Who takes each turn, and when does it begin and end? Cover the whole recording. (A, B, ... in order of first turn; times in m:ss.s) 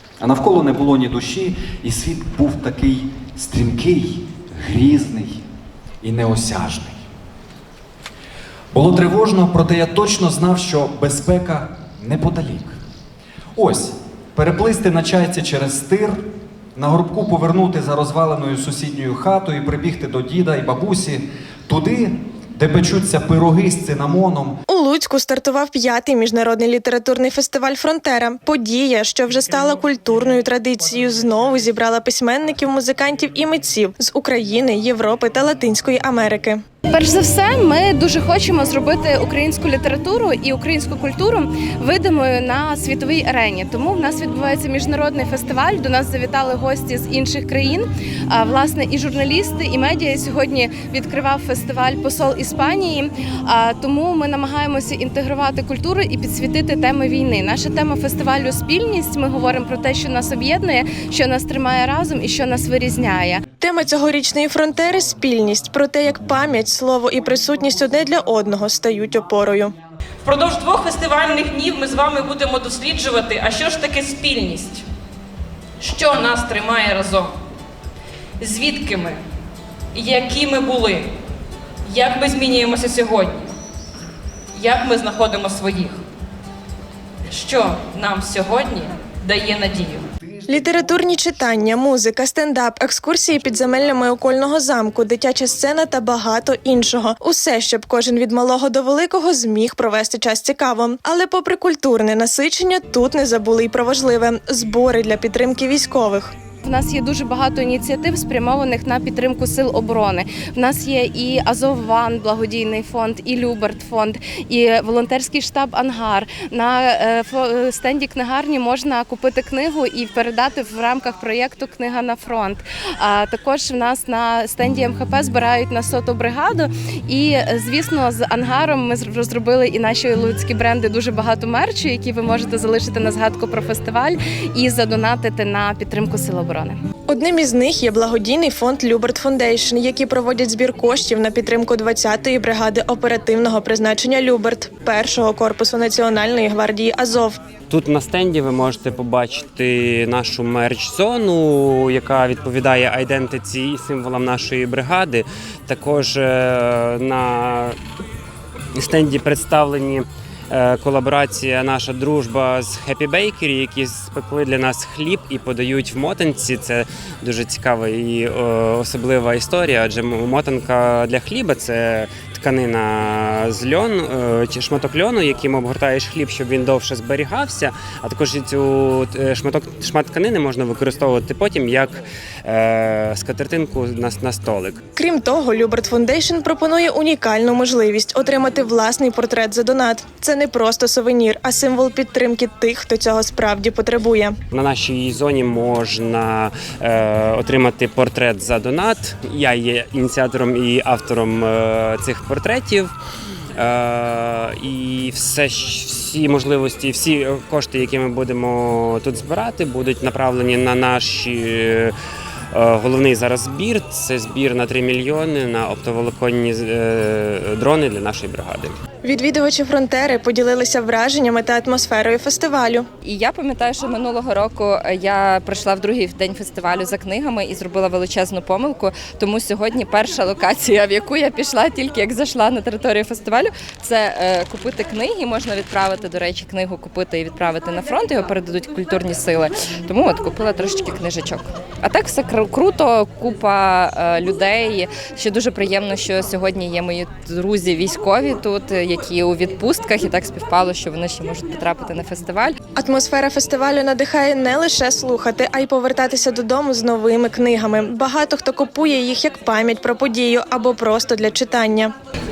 0:00.2-0:05.4 A
0:06.0-0:07.0 A
0:08.7-0:12.8 A
0:13.6-0:16.2 A
0:16.8-0:24.6 A
0:24.7-0:36.6 B
0:36.9-1:03.4 C
1:03.6-1:09.8 B
1:10.2-1:14.8 D
1:15.8-1:17.4 D
1:18.4-1:19.2 D
1:19.9-1:21.1 D
1:21.9-1:23.5 D
1:24.6-1:26.0 D
1:27.3-1:30.1 D
1:30.5-1:46.3 B
1:46.6-2:16.8 C
2:17.1-2:27.4 B
2:27.7-2:37.8 E
2:38.8-3:04.8 E
3:05.0-3:14.4 B
3:14.5-3:22.9 E
3:23.6-3:31.9 E
3:32.5-3:38.8 E
3:39.0-3:42.9 B
3:43.0-4:12.6 F
4:12.8-4:21.9 B